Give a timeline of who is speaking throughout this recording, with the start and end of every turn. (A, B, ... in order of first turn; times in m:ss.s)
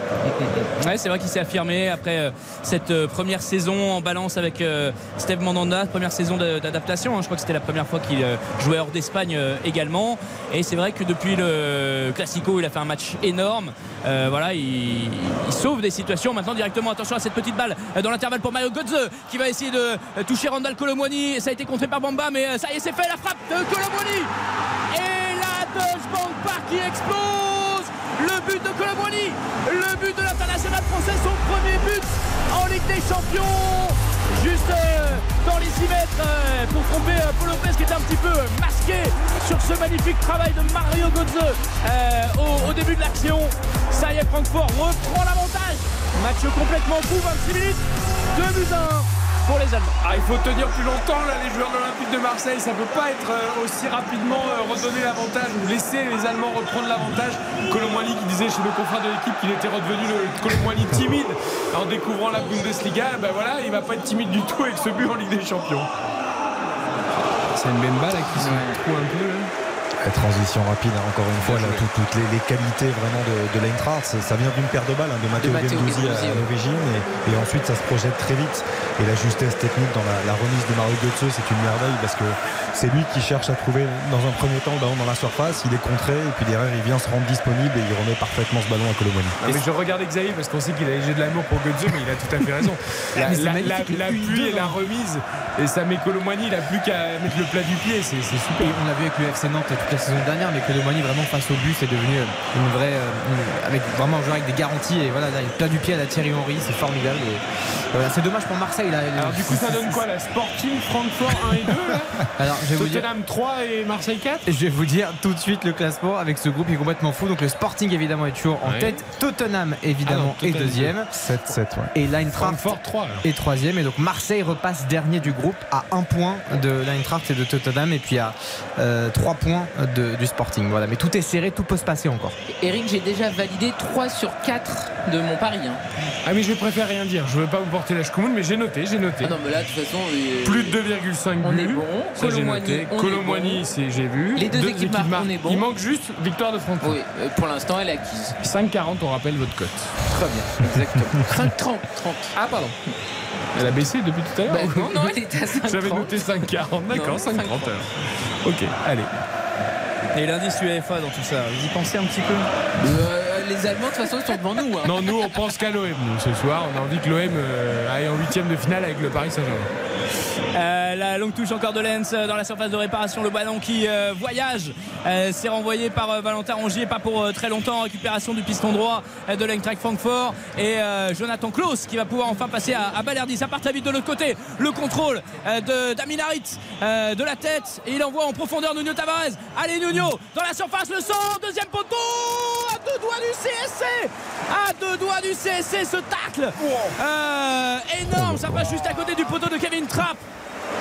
0:00.3-0:24.3 A
0:24.9-0:50.0 A
0:50.0-1:05.9 B
1:07.5-1:09.5 B
1:08.4-1:08.8 C
1:10.0-1:29.6 D
1:11.4-1:11.9 B
1:15.4-1:16.5 C
1:29.4-1:38.8 B
1:33.2-1:33.7 C
1:33.2-1:34.8 E
1:38.6-1:50.0 E
1:49.2-1:52.2 B
1:52.4-1:53.0 E
1:52.8-1:54.5 B
1:54.5-2:01.1 E
1:58.6-1:59.0 B
2:00.1-2:00.9 B
2:01.1-2:01.9 D
2:01.9-2:12.4 E
2:02.3-2:03.3 B
2:12.5-2:15.9 C
2:16.2-2:19.4 B
2:19.2-2:20.8 C
2:20.4-2:27.0 B
2:21.4-2:23.6 C
2:24.4-2:25.6 C
2:26.8-2:28.4 C
2:28.4-2:29.9 B
2:30.1-2:32.3 C
2:32.4-2:32.8 B
2:33.6-2:39.1 B
2:34.5-2:37.8 C
2:40.2-2:42.5 A
2:42.8-2:45.1 C
2:44.8-2:49.7 B
2:50.5-3:20.2 A
3:16.6-3:17.0 B
3:18.1-3:18.7 D